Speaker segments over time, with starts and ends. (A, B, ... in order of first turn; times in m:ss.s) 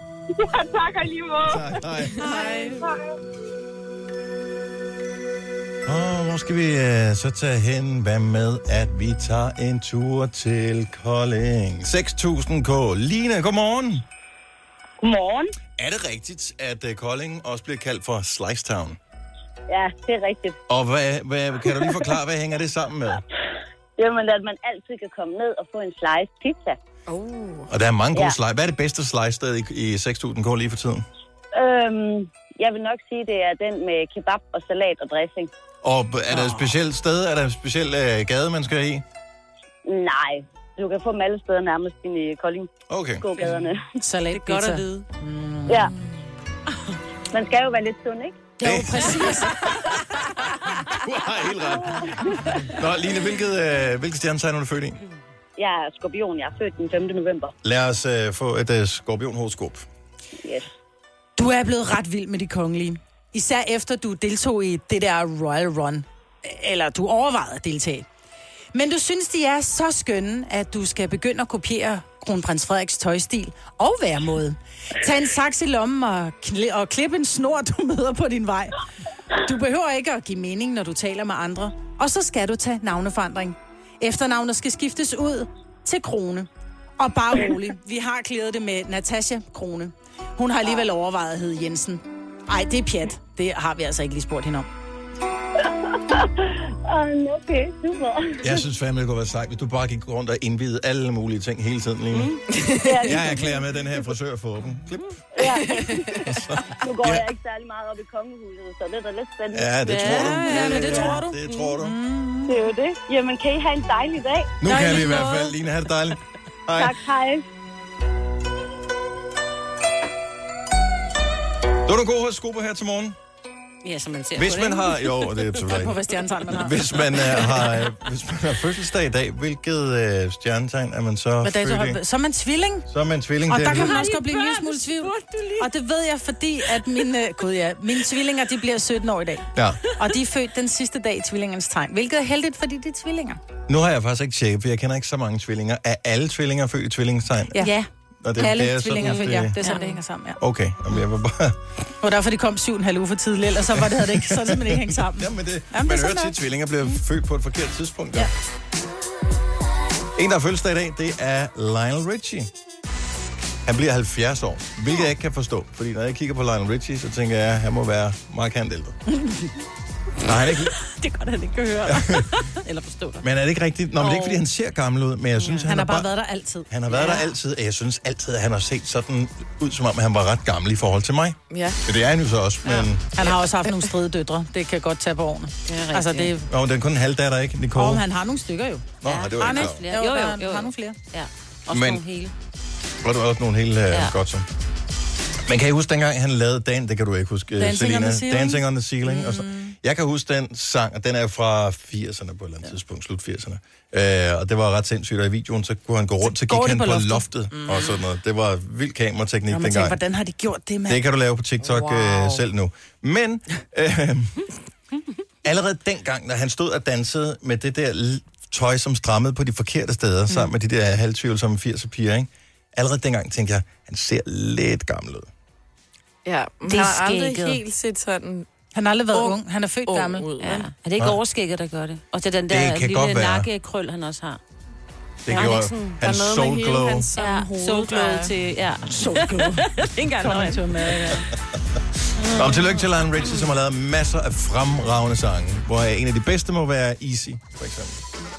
0:00.3-0:03.1 A
0:01.4-0:02.3 B
0:02.2-0:02.9 C
0:05.8-0:14.0 B
0:15.0-0:15.6 D
0:15.8-0:19.0 B
0:19.7-0:20.6 D
0:20.7-0:23.2 B
0:24.0-0:26.8 D
0:27.1-0:27.7 C
0:27.7-0:31.1 B
0:31.5-0:35.5 D
0:35.8-0:39.0 B
0:36.3-0:36.7 E
0:39.8-0:43.8 D
0:42.9-0:43.3 B
0:44.0-0:45.9 E
0:44.3-0:45.1 F
0:47.3-0:48.5 D
0:48.6-0:49.8 E
0:48.6-0:49.7 B
0:50.9-0:55.0 B
0:52.0-0:52.3 D
0:55.6-0:57.5 D
0:57.6-0:59.9 B
1:01.4-1:08.1 E
1:08.7-1:18.8 E
1:19.4-1:34.7 E
1:36.1-1:38.6 D
1:38.4-1:42.4 B
1:42.1-1:42.4 F
1:42.5-1:43.3 C
1:42.8-1:44.1 D
1:43.0-1:45.6 B
1:45.3-1:50.8 D
1:45.4-1:46.2 C
1:46.2-1:47.3 B
1:49.5-1:52.0 B
1:49.8-1:51.7 F
1:50.0-1:52.6 E
1:52.5-1:54.6 D
1:54.6-1:57.0 B
1:54.7-1:55.5 F
1:54.7-1:55.4 E
1:56.7-1:57.5 D
2:01.8-2:03.2 B
2:03.8-2:05.5 F
2:04.4-2:06.0 B
2:05.7-2:06.8 E
2:06.5-2:12.0 B
2:11.4-2:12.9 E
2:12.9-2:14.0 B
2:13.5-2:23.4 E
2:13.7-2:15.7 F
2:19.6-2:19.8 B
2:23.7-2:27.7 B
2:27.6-2:27.9 F
2:28.2-2:29.6 B
2:28.4-2:30.4 E
2:29.0-2:30.0 F
2:30.4-2:31.6 B
2:32.0-2:36.4 E
2:33.7-2:38.3 B
2:40.2-2:42.5 B
2:43.6-2:49.0 B
2:50.2-2:50.8 B
2:50.8-2:53.2 F
2:51.9-2:52.3 B
2:53.2-2:56.1 B
2:55.4-2:55.7 F
2:55.6-2:57.2 E
2:56.7-3:03.1 B
3:01.5-3:01.8 C
3:03.1-3:06.4 E
3:05.7-3:06.4 F
3:06.5-3:08.0 B
3:07.8-3:11.0 E
3:09.0-3:09.8 B
3:09.0-3:12.3 F
3:11.7-3:12.0 B
3:13.0-3:14.5 B
3:15.4-3:30.0 B
3:17.6-3:19.8 E
3:26.2-3:27.7 E
3:29.5-3:31.0 E
3:30.9-3:34.5 B
3:31.6-3:32.4 C
3:35.4-3:45.3 B
3:46.2-3:48.5 C
3:46.6-3:47.6 F
3:48.7-3:50.3 E
3:49.1-3:50.7 C
3:50.4-3:54.4 F
3:52.5-3:53.5 B
3:55.3-3:57.1 B
3:55.3-3:56.4 F
3:56.1-3:58.3 C
3:57.2-4:01.2 F
3:58.9-4:01.2 E
4:02.2-4:02.8 F
4:02.2-4:08.0 B